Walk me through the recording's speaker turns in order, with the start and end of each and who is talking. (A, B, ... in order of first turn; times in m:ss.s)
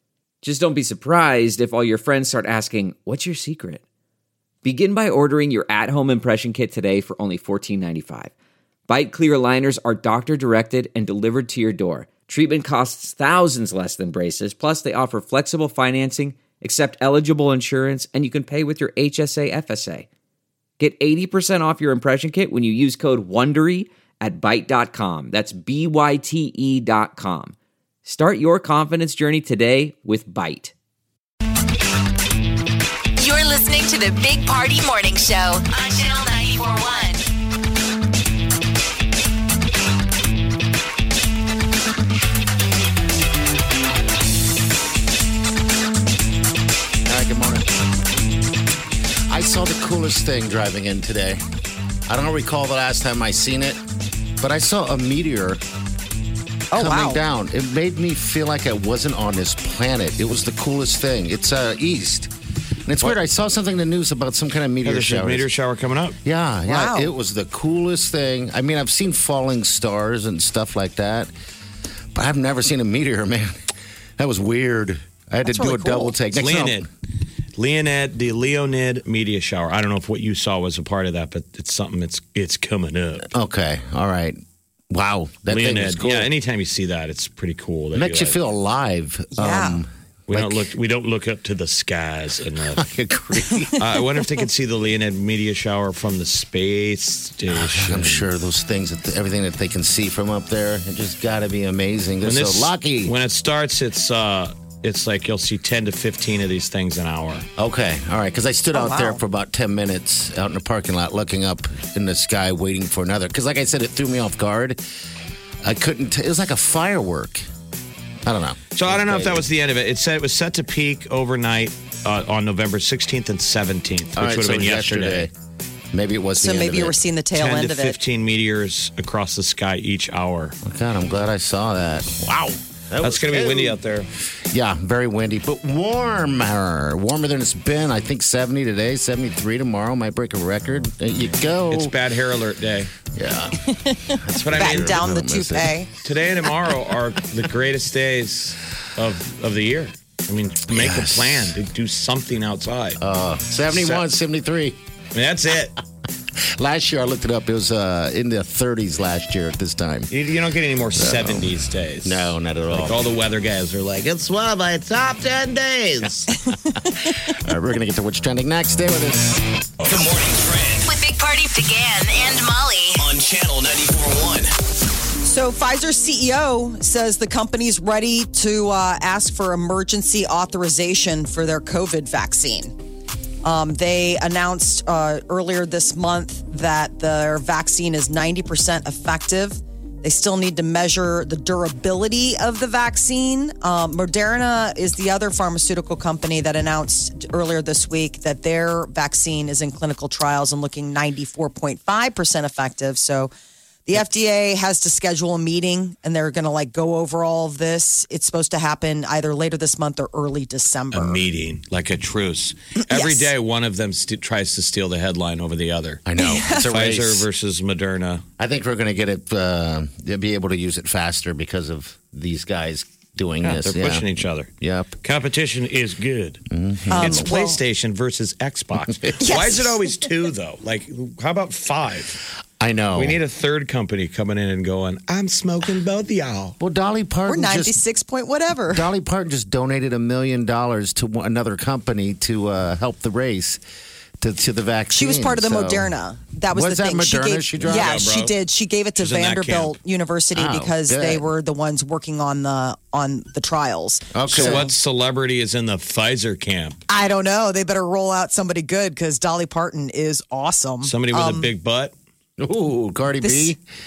0:00.4-0:03.8 A
0:04.6-0:08.3 A
0:08.9-0:20.1 A
0:20.8-0:30.7 A
0:33.2-0:37.2 B
0:47.0-0:47.8 C
0:49.3-0:51.4 C
0:52.1-0:53.8 C
0:54.4-0:55.6 C
0:56.7-0:57.2 D
0:56.8-1:02.3 C
1:02.8-1:05.5 C
1:04.8-1:06.2 E
1:06.2-1:11.3 C
1:06.7-1:07.1 D
1:12.2-1:13.6 C
1:14.2-1:16.9 C
1:15.4-1:16.2 D
1:16.3-1:16.9 E
1:17.6-1:23.3 E
1:23.3-1:24.4 C
1:24.9-1:26.3 C
1:25.5-1:28.4 E
1:28.0-1:30.7 C
1:29.3-1:29.8 D
1:30.3-1:32.9 E
1:32.8-1:33.8 C
1:33.8-1:38.3 E
1:37.5-1:43.1 C
1:42.2-1:47.5 E
1:47.6-1:54.8 C
1:48.7-1:49.2 D
1:55.6-1:57.5 C
1:58.3-1:59.5 C
1:58.8-2:05.3 E
2:04.2-2:05.3 C
2:05.9-2:07.0 C
2:06.4-2:08.0 D
2:07.4-2:10.6 E
2:10.6-2:13.8 C
2:13.0-2:14.1 E
2:14.5-2:21.9 C
2:21.7-2:22.9 E
2:23.1-2:23.6 C
2:23.7-2:25.9 D
2:24.2-2:25.8 C
2:24.4-2:25.0 E
2:26.0-2:33.0 E
2:30.7-2:31.6 C
2:33.0-2:34.8 C
2:33.7-2:34.0 E
2:35.1-2:35.8 E
2:36.6-2:40.1 C
2:40.1-2:46.3 E
2:41.0-2:41.5 C
2:42.0-2:43.1 C
2:47.3-2:49.4 C
2:49.8-2:50.9 F
2:50.8-2:53.0 B
2:53.0-2:54.5 F
2:55.2-3:02.8 D
3:03.4-3:23.3 D
3:23.9-3:31.2 D
3:30.9-3:36.0 E
3:32.8-3:33.3 D
3:36.0-3:37.3 C
3:36.2-3:36.7 D
3:36.6-3:38.2 E
3:38.4-3:45.0 C
3:43.4-3:44.5 E
3:45.0-3:52.2 E
3:46.5-3:47.3 C
3:46.9-3:47.6 D
3:49.2-3:49.9 D
3:52.6-3:53.2 C
3:53.0-3:56.6 E
3:56.6-3:57.8 C
3:57.3-3:58.9 D
3:58.7-4:03.6 C
4:04.2-4:05.9 C
4:04.9-4:14.7 D
4:06.5-4:08.1 C
4:07.6-4:08.3 E
4:09.0-4:09.7 E
4:10.4-4:11.2 C
4:14.1-4:14.7 C
4:14.3-4:16.8 E
4:16.9-4:21.5 D
4:20.8-4:21.9 E
4:22.4-4:23.6 C
4:23.2-4:23.5 D